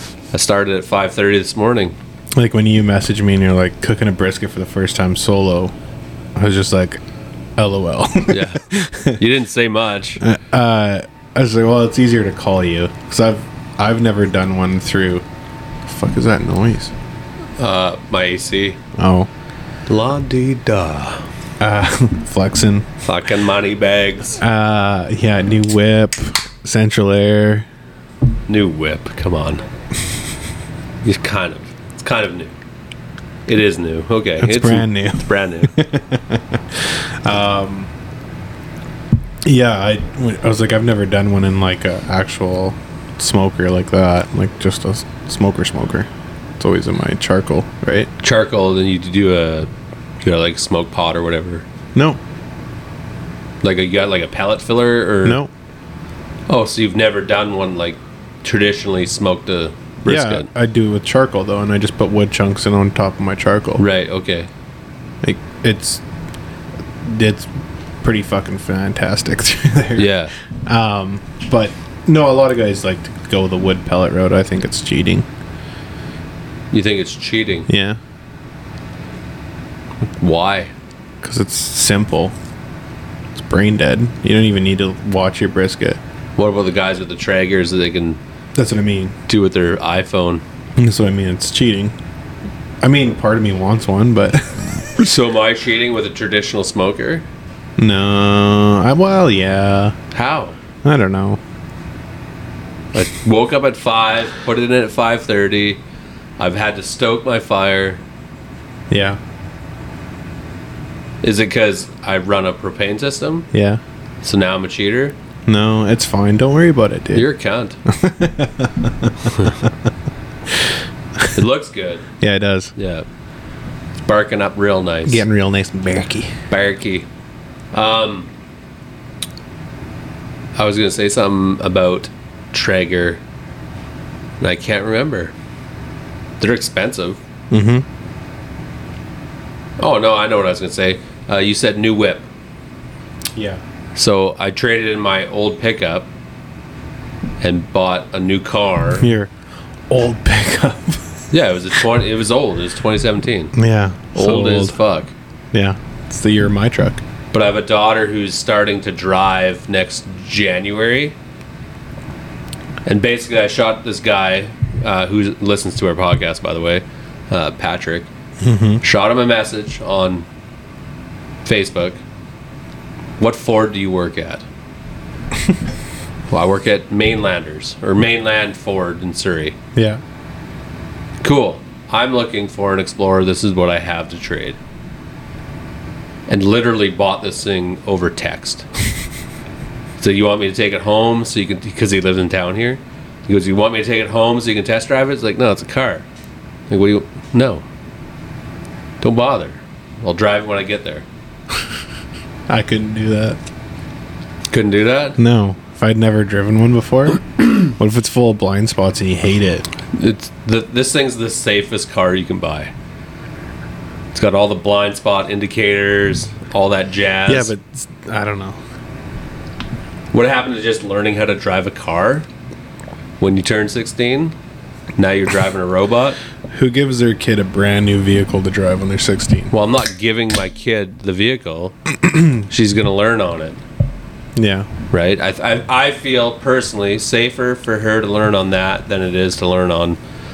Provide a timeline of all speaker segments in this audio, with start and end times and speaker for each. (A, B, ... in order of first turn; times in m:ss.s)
0:00.3-0:02.0 A
0:02.4-0:05.8 B
0:06.4-0:07.0 B
0:07.6-0:09.2 B
0:08.3-0:08.6 A
0:09.2-0:10.2 A
0:10.2-0:15.2 B
0:15.9-0:16.9 B
0:17.6-0:18.8 A
0:19.0-0:19.3 B
0:19.9-0:21.2 A
0:21.6-0:22.9 B
0:23.0-0:24.4 A
0:24.4-0:27.7 B
0:28.5-0:29.6 A
0:31.0-0:32.5 A
0:33.5-0:35.8 A
0:34.4-0:37.9 B
0:39.4-0:46.1 B
0:46.6-0:48.1 B
0:48.2-0:49.7 A
0:50.2-0:51.6 A
0:52.0-0:52.2 B
0:53.6-0:55.4 A
0:55.2-0:55.5 B
0:56.5-1:00.5 A
1:00.1-1:03.8 B
1:03.8-1:04.5 A
1:05.2-1:06.0 B
1:07.0-1:07.5 B
1:08.0-1:10.1 B
1:10.0-1:10.3 A
1:10.7-1:15.3 B
1:16.7-1:17.7 A
1:17.7-1:18.0 B
1:20.2-1:20.7 A
1:21.2-1:22.4 B
1:23.4-1:26.0 B
1:26.4-1:28.2 A
1:28.6-1:29.2 B
1:29.3-1:30.4 A
1:30.8-1:32.0 B
1:32.8-1:34.8 B
1:35.0-1:37.3 A
1:37.8-1:40.0 B
1:40.1-1:40.6 A
1:40.8-1:41.4 B
1:42.9-1:45.8 A
1:46.4-1:48.0 A
1:48.9-1:49.2 B
1:51.2-1:53.5 A
1:53.5-1:53.8 B
1:54.2-1:55.2 A
1:55.5-1:57.3 B
1:57.1-1:57.8 A
1:57.9-1:59.7 B
2:01.3-2:02.0 A
2:02.2-2:02.7 B
2:02.8-2:03.1 A
2:04.1-2:05.2 A
2:05.0-2:06.4 B
2:06.5-2:07.1 A
2:07.7-2:08.3 A
2:10.6-2:13.2 A
2:14.4-2:15.3 A
2:16.4-2:17.2 A
2:17.5-2:17.8 B
2:19.8-2:22.3 A
2:23.4-2:23.6 B
2:24.0-2:26.1 A
2:27.4-2:29.1 A
2:29.0-2:29.3 B
2:29.9-2:31.0 B
2:31.3-2:33.5 A
2:33.5-2:34.8 B
2:34.1-2:35.1 A
2:35.5-2:37.0 B
2:37.3-2:41.2 A
2:42.8-2:48.1 A
2:48.4-2:48.8 B
2:48.8-2:50.3 A
2:51.4-2:52.0 A
2:53.2-2:54.5 A
2:56.3-2:59.6 A
2:59.8-3:00.0 B
3:01.2-3:04.6 A
3:06.3-3:08.7 A
3:10.0-3:16.1 A
3:16.7-3:17.6 A
3:19.0-3:21.0 A
3:22.5-3:23.4 B
3:24.5-3:25.2 A
3:25.2-3:29.7 B
3:29.9-3:32.7 A
3:34.1-3:37.5 A
3:37.3-3:38.6 B
3:40.1-3:42.3 A
3:43.2-3:44.4 A
3:45.0-3:46.2 A
3:46.5-3:49.5 B
3:49.5-3:51.8 A
3:52.4-3:53.6 A
3:54.4-3:54.7 B
3:54.9-4:00.0 A